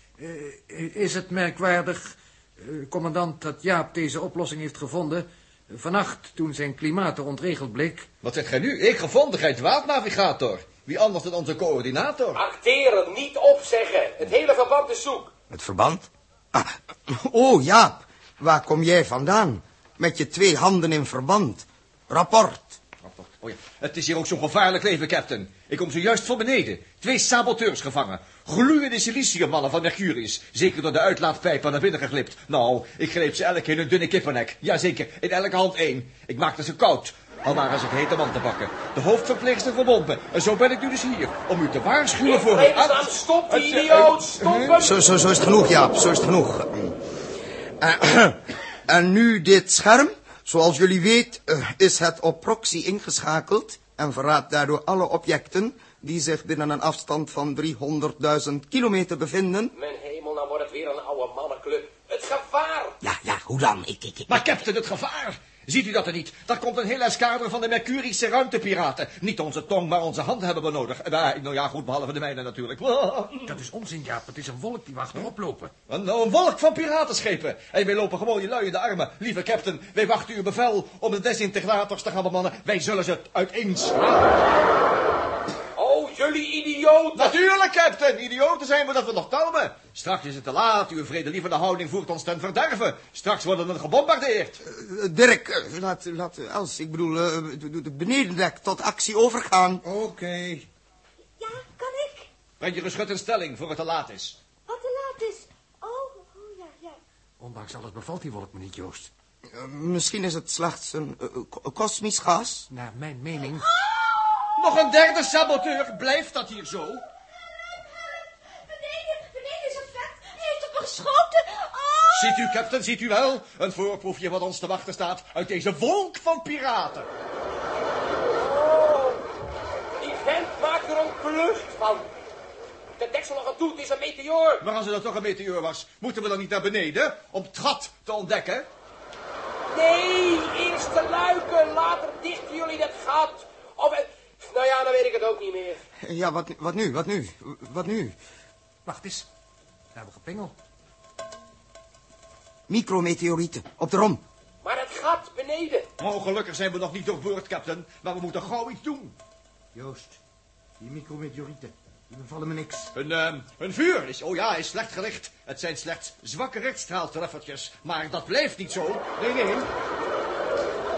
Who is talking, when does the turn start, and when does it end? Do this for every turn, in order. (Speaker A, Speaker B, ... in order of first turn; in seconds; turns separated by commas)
Speaker A: 0.2-8.1, Speaker B: 8.2-12.4, Speaker C: 12.3-15.3, Speaker D: 15.5-22.8, Speaker B: 23.0-44.8, Speaker C: 42.2-45.0, Speaker D: 44.8-47.0, Speaker D: 47.8-59.7, Speaker C: 59.8-63.0, Speaker D: 63.0-64.5, Speaker B: 64.3-73.6, Speaker A: 73.5-75.7, Speaker B: 75.9-84.5, Speaker C: 85.8-87.3, Speaker B: 87.2-94.6, Speaker D: 94.6-99.8, Speaker E: 99.8-100.7, Speaker F: 101.4-102.3, Speaker B: 102.6-104.4, Speaker F: 104.7-107.0, Speaker A: 107.4-109.1, Speaker D: 109.5-112.7, Speaker A: 112.7-113.7, Speaker F: 113.6-114.8, Speaker B: 114.6-117.0, Speaker F: 117.4-122.7, Speaker B: 122.1-127.1, Speaker C: 128.2-129.2, Speaker C: 130.0-132.1, Speaker C: 133.0-134.6, Speaker B: 134.6-138.7, Speaker C: 139.7-145.8, Speaker D: 146.0-148.2, Speaker A: 148.8-149.3, Speaker A: 149.9-150.6, Speaker D: 152.7-154.2, Speaker C: 154.6-155.9, Speaker B: 156.0-159.2, Speaker E: 159.8-160.2, Speaker E: 160.8-162.9, Speaker B: 162.9-169.7